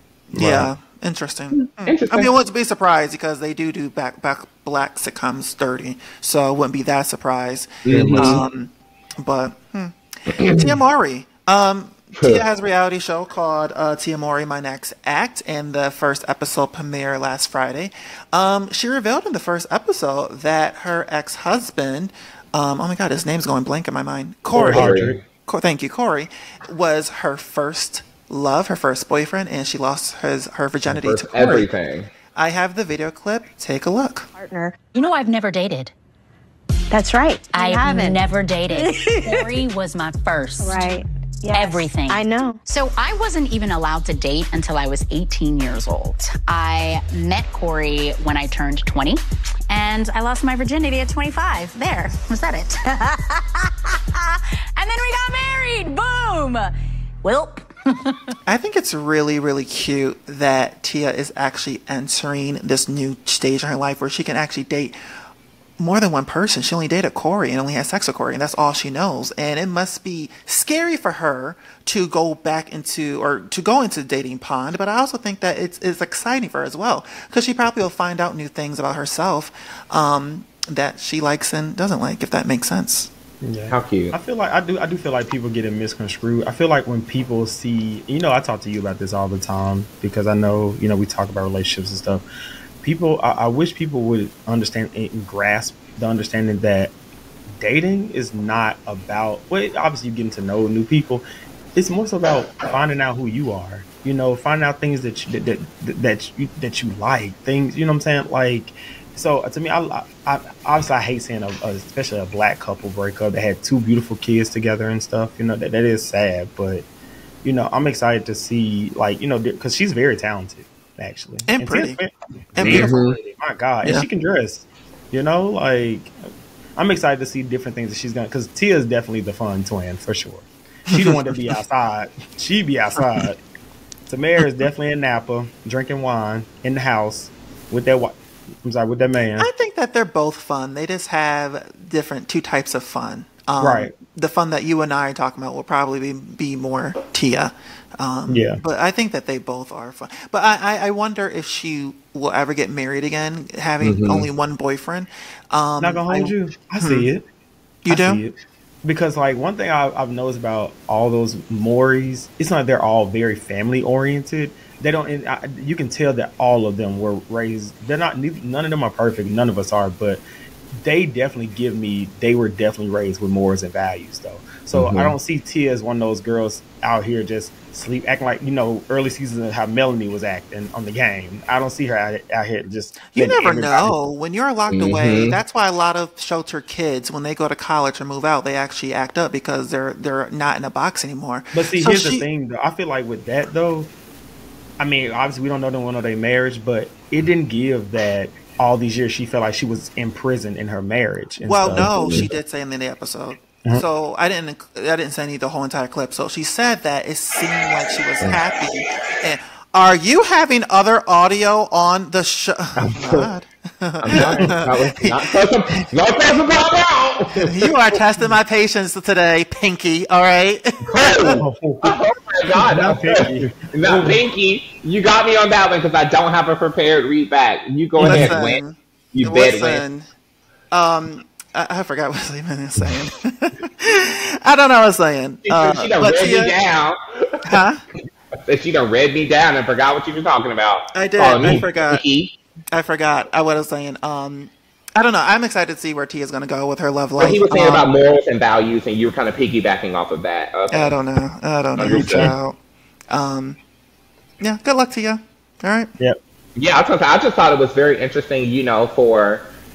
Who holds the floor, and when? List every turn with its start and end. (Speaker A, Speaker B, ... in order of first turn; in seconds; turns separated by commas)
Speaker A: 0.3-31.7, Speaker B: 0.3-0.7, Speaker C: 1.8-2.3, Speaker C: 7.9-8.4, Speaker B: 7.9-8.4, Speaker C: 10.3-10.8, Speaker C: 12.2-12.4, Speaker B: 24.5-25.2, Speaker C: 24.5-25.2, Speaker C: 30.9-32.1, Speaker A: 32.3-34.3, Speaker D: 34.4-34.9, Speaker E: 34.9-35.9, Speaker D: 36.9-39.6, Speaker E: 37.5-41.0, Speaker D: 40.6-42.6, Speaker E: 41.5-57.6, Speaker A: 58.5-65.0, Speaker A: 65.8-83.1, Speaker B: 83.4-92.2, Speaker C: 83.7-84.1, Speaker B: 92.8-96.9, Speaker B: 97.6-116.8, Speaker B: 117.4-126.1, Speaker A: 121.5-122.0, Speaker A: 122.6-123.0, Speaker C: 122.6-123.2, Speaker B: 126.8-133.4, Speaker A: 130.9-131.2, Speaker B: 134.1-139.5, Speaker A: 139.4-157.1, Speaker B: 143.6-143.9, Speaker B: 148.3-148.6, Speaker C: 153.8-154.3, Speaker B: 155.8-157.2, Speaker A: 157.8-158.2, Speaker B: 157.9-170.2, Speaker B: 170.8-183.9, Speaker C: 174.7-175.2, Speaker A: 183.1-192.3, Speaker C: 184.7-185.4, Speaker B: 191.5-193.9, Speaker B: 194.8-202.3, Speaker A: 201.4-215.9, Speaker C: 201.7-202.3, Speaker C: 208.2-208.6, Speaker C: 212.8-213.3, Speaker C: 214.0-217.7, Speaker B: 214.1-214.6, Speaker A: 217.4-221.4, Speaker C: 220.9-228.6, Speaker B: 221.2-222.0, Speaker B: 222.5-224.2, Speaker A: 228.0-230.1, Speaker B: 228.0-228.4, Speaker C: 229.1-229.8, Speaker A: 230.7-236.6, Speaker C: 235.5-237.6, Speaker A: 237.5-237.8, Speaker C: 238.5-242.4, Speaker A: 240.9-242.0, Speaker A: 242.7-247.9, Speaker C: 247.2-250.9, Speaker A: 250.7-252.6, Speaker C: 251.8-252.3, Speaker B: 251.8-252.3, Speaker A: 253.1-253.6, Speaker A: 254.4-255.9, Speaker C: 256.6-259.4